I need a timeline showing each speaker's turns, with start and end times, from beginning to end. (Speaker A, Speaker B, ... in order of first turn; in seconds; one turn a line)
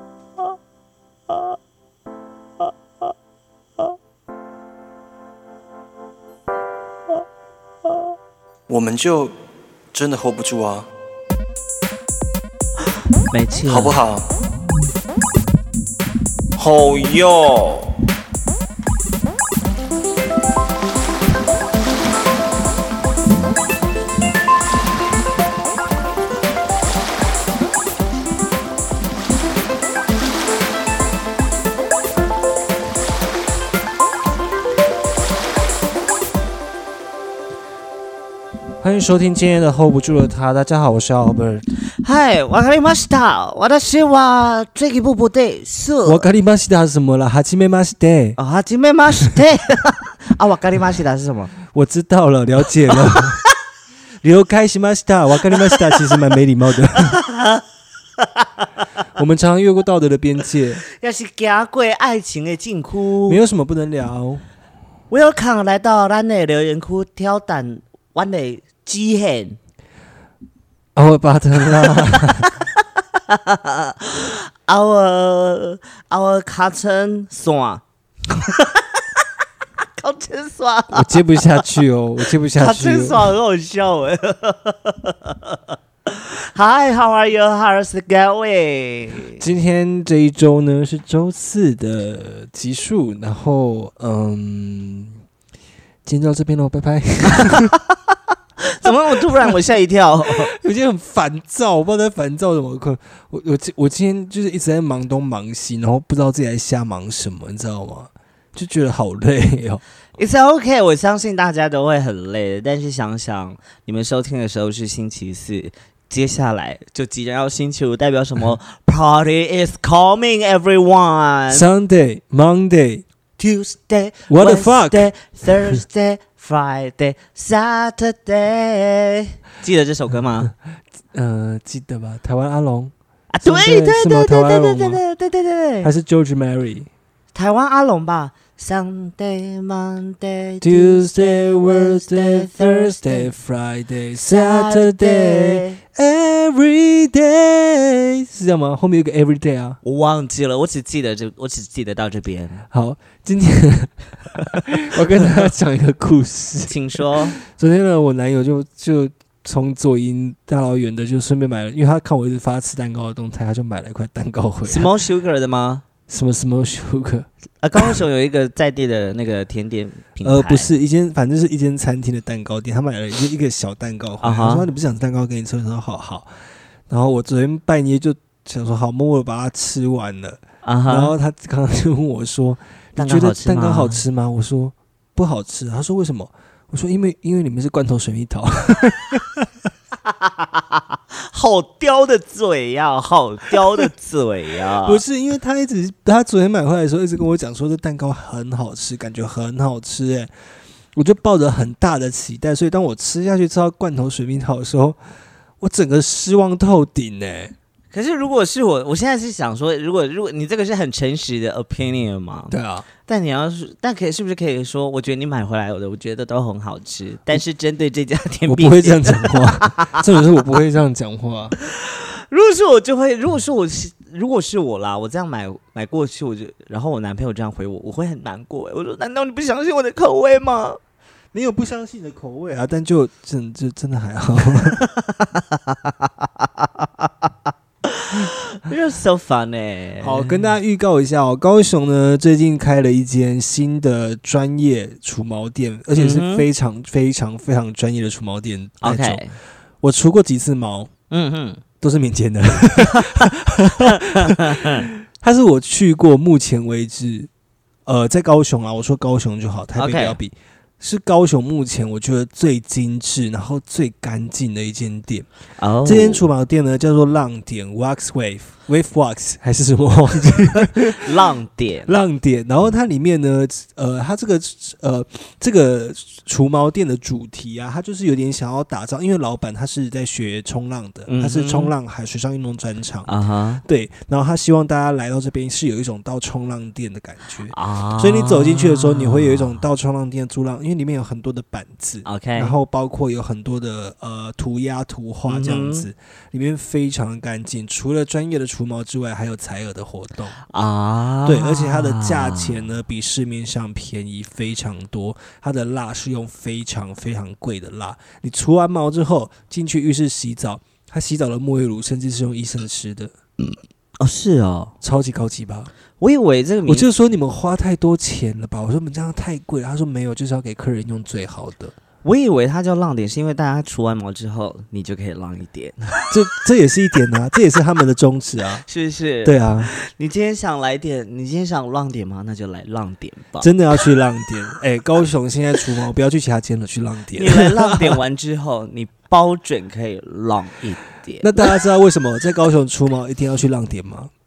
Speaker A: 8.7-9.3
Speaker A: 9.9-10.9
Speaker B: 13.3-14.0
Speaker A: 13.6-14.3
Speaker A: 16.6-17.9
Speaker C: 38.8-41.6
Speaker B: 42.0-46.3
Speaker C: 46.0-48.4
Speaker B: 48.4-51.5
Speaker C: 51.7-53.4
Speaker C: 54.2-57.2
Speaker B: 55.9-56.1
Speaker B: 57.1-57.6
Speaker B: 58.2-58.7
Speaker C: 59.1-60.8
Speaker B: 61.0-63.4
Speaker C: 63.3-64.4
Speaker B: 65.1-69.6
Speaker C: 71.0-72.5
Speaker B: 72.0-72.3
Speaker B: 73.2-78.9
Speaker B: 80.0-81.7
Speaker C: 80.9-83.3
Speaker B: 82.5-89.4
Speaker C: 89.4-95.2
Speaker C: 96.0-97.7
Speaker B: 97.4-97.7
Speaker B: 98.6-100.5
Speaker C: 98.8-99.5
Speaker C: 100.5-109.8
Speaker B: 110.2-121.7
Speaker C: 121.5-123.0
Speaker B: 123.4-130.5
Speaker C: 124.3-125.8
Speaker C: 131.1-135.0
Speaker B: 133.3-135.9
Speaker C: 135.8-136.9
Speaker B: 137.3-143.3
Speaker C: 140.6-149.8
Speaker B: 144.2-145.8
Speaker B: 149.8-152.7
Speaker C: 152.7-154.0
Speaker C: 154.5-164.9
Speaker B: 156.7-157.4
Speaker B: 164.7-165.8
Speaker C: 166.1-168.0
Speaker B: 167.6-170.7
Speaker C: 170.2-176.3
Speaker B: 174.2-174.7
Speaker C: 176.9-189.5
Speaker B: 180.6-181.1
Speaker B: 183.0-184.0
Speaker B: 190.3-195.0
Speaker C: 194.8-200.3
Speaker C: 200.9-205.0
Speaker C: 205.6-207.6
Speaker B: 207.9-220.0
Speaker C: 212.5-212.9
Speaker C: 218.5-221.6
Speaker B: 221.6-230.8
Speaker C: 231.3-234.8
Speaker B: 234.8-237.3
Speaker B: 237.8-240.4
Speaker C: 240.0-249.3
Speaker B: 245.9-246.5
Speaker B: 248.8-249.4
Speaker C: 249.8-250.9
Speaker B: 251.1-251.6
Speaker C: 251.8-257.3
Speaker B: 252.9-253.3
Speaker B: 253.9-254.9
Speaker C: 257.9-265.3
Speaker B: 259.8-260.2
Speaker B: 265.6-266.2
Speaker C: 265.8-271.1
Speaker B: 270.8-271.9
Speaker C: 271.9-283.1
Speaker B: 281.1-281.7
Speaker B: 283.1-283.6
Speaker C: 283.6-300.4
Speaker B: 287.5-289.6
Speaker B: 292.0-292.6
Speaker B: 295.3-295.9
Speaker B: 300.4-302.6
Speaker C: 301.2-313.1
Speaker B: 314.0-314.7
Speaker C: 314.8-315.7
Speaker B: 316.0-316.9
Speaker C: 316.7-321.8
Speaker B: 322.0-326.1
Speaker C: 326.1-328.7
Speaker B: 328.7-333.5
Speaker C: 329.2-329.7
Speaker C: 333.4-338.0
Speaker B: 337.1-341.3
Speaker C: 341.2-344.1